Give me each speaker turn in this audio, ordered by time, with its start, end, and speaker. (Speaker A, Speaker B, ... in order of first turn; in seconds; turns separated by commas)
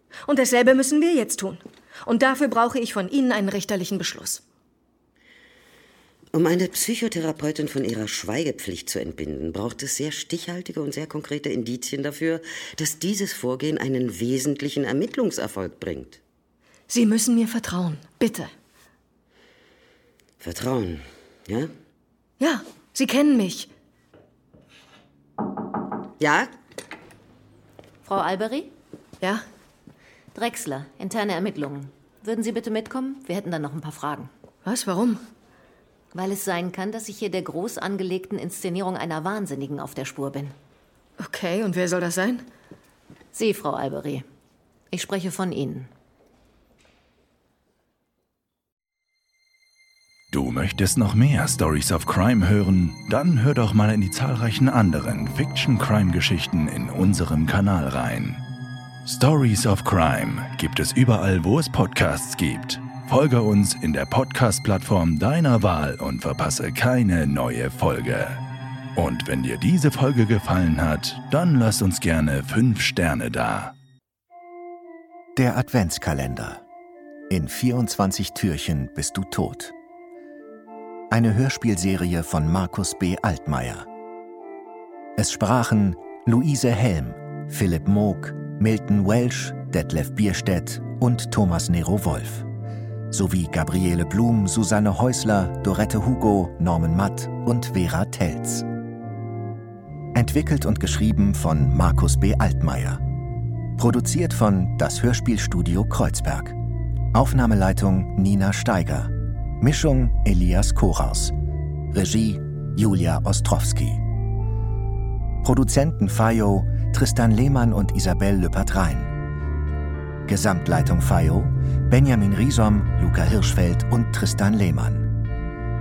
Speaker A: 0.2-4.4, Speaker B: 6.3-16.2, Speaker A: 16.9-18.5, Speaker B: 20.4-21.6, Speaker A: 22.4-23.7, Speaker C: 28.0-28.7, Speaker C: 30.3-34.3, Speaker A: 34.6-35.2, Speaker C: 36.1-40.5, Speaker A: 41.2-42.4, Speaker C: 43.3-44.2, Speaker C: 44.9-45.9, Speaker D: 50.3-58.4, Speaker D: 59.0-68.4, Speaker D: 69.0-73.8, Speaker E: 75.3-76.6, Speaker E: 77.3-79.7, Speaker E: 81.1-83.9, Speaker E: 85.2-92.5, Speaker E: 93.1-98.7, Speaker E: 100.1-103.0, Speaker E: 103.8-106.6, Speaker E: 107.1-111.3, Speaker E: 111.9-114.0, Speaker E: 115.4-119.1, Speaker E: 120.3-125.1